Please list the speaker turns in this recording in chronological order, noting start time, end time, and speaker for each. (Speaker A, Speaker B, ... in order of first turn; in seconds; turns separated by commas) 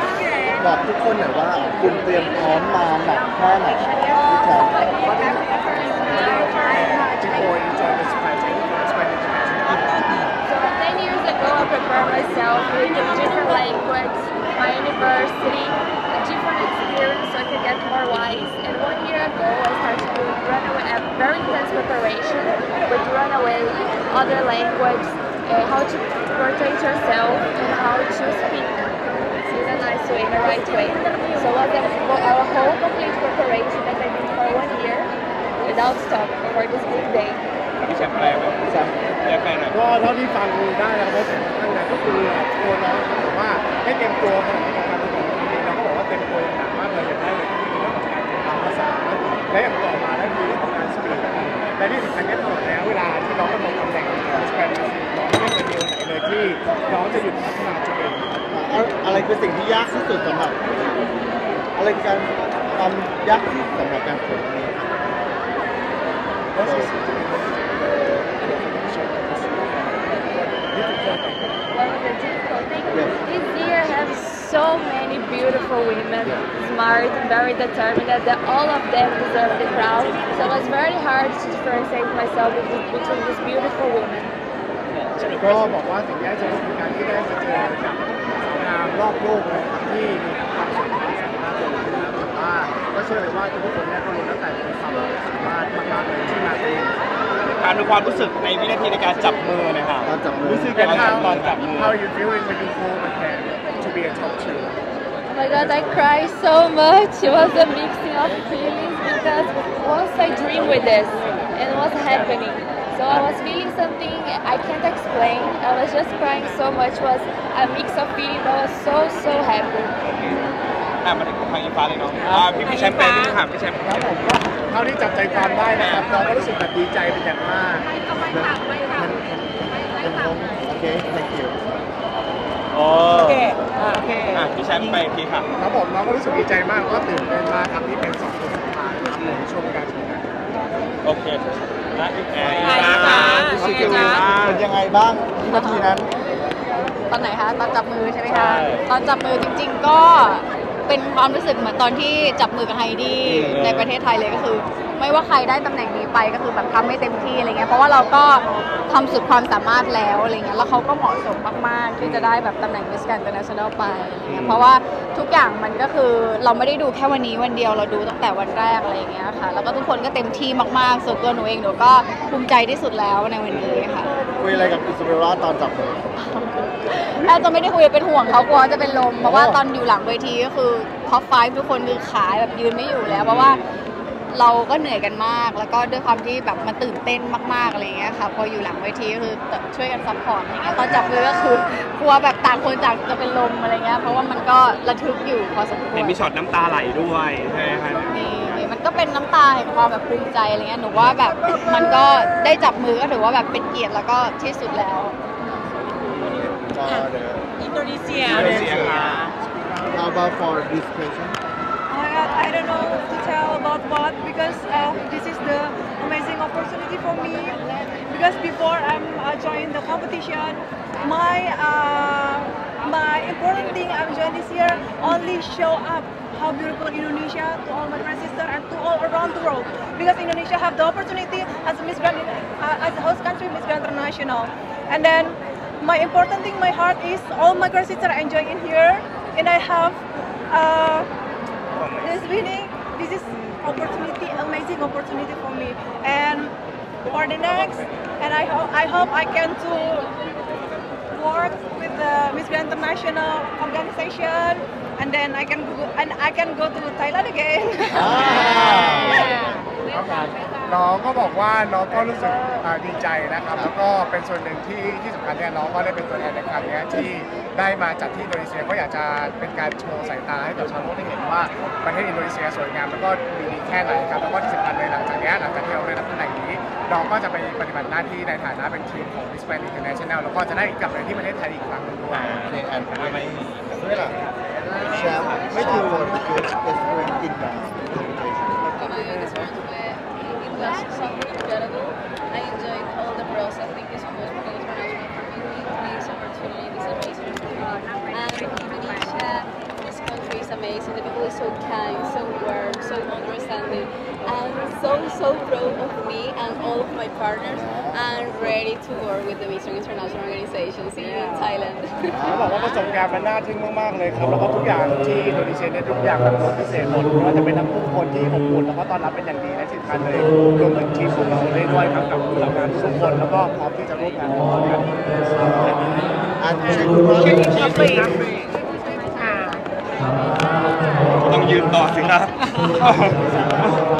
Speaker A: 0.6-5.0, Speaker B: 5.0-9.9, Speaker C: 6.1-6.8, Speaker D: 10.4-28.8, Speaker D: 29.5-35.1, Speaker D: 35.6-37.4, Speaker E: 37.8-39.8, Speaker A: 38.6-38.9, Speaker B: 39.7-58.4, Speaker A: 58.5-60.8, Speaker A: 61.8-65.1, Speaker B: 66.5-71.5, Speaker A: 66.6-66.9, Speaker D: 71.7-84.3, Speaker A: 72.9-73.1, Speaker E: 85.0-85.7, Speaker B: 85.3-97.0, Speaker E: 97.5-100.1, Speaker A: 100.0-101.1, Speaker B: 100.4-104.7, Speaker E: 100.8-102.0, Speaker B: 105.5-106.0, Speaker D: 105.6-119.9, Speaker E: 121.0-124.0, Speaker F: 122.3-123.3, Speaker B: 123.8-127.9, Speaker E: 125.7-126.6, Speaker A: 128.2-131.6, Speaker E: 132.7-133.6, Speaker F: 133.2-135.0, Speaker E: 134.3-135.5, Speaker B: 135.6-140.3, Speaker E: 139.2-139.4, Speaker E: 141.0-141.4, Speaker E: 141.9-144.7, Speaker A: 142.4-146.1, Speaker F: 142.6-144.1, Speaker G: 145.5-145.9, Speaker G: 147.1-174.1, Speaker E: 148.3-148.8, Speaker E: 153.2-153.9, Speaker E: 162.0-162.4, Speaker E: 164.2-164.7, Speaker E: 173.5-173.8, Speaker A: 174.3-176.0, Speaker G: 176.2-183.6, Speaker A: 179.2-179.6, Speaker A: 183.1-183.5, Speaker E: 183.3-183.6, Speaker G: 184.3-196.2, Speaker E: 195.9-198.6, Speaker G: 197.9-205.2, Speaker A: 206.7-207.5, Speaker F: 207.7-208.4, Speaker A: 208.1-209.3, Speaker E: 208.2-209.3, Speaker A: 209.9-211.4, Speaker C: 211.9-241.1, Speaker E: 241.7-242.2, Speaker C: 241.9-246.5, Speaker C: 247.1-250.1, Speaker E: 247.6-247.8, Speaker C: 251.1-258.1, Speaker A: 257.9-259.5, Speaker F: 258.2-258.8, Speaker B: 260.6-282.4, Speaker E: 282.1-284.2, Speaker A: 282.4-284.1, Speaker E: 284.7-286.1, Speaker A: 284.8-288.8, Speaker H: 285.2-285.6, Speaker H: 288.6-312.8, Speaker A: 307.4-308.6, Speaker A: 312.1-312.5, Speaker B: 312.2-326.2, Speaker A: 326.4-328.1, Speaker F: 327.3-327.8, Speaker F: 329.2-329.6, Speaker E: 331.2-333.8, Speaker A: 333.1-333.8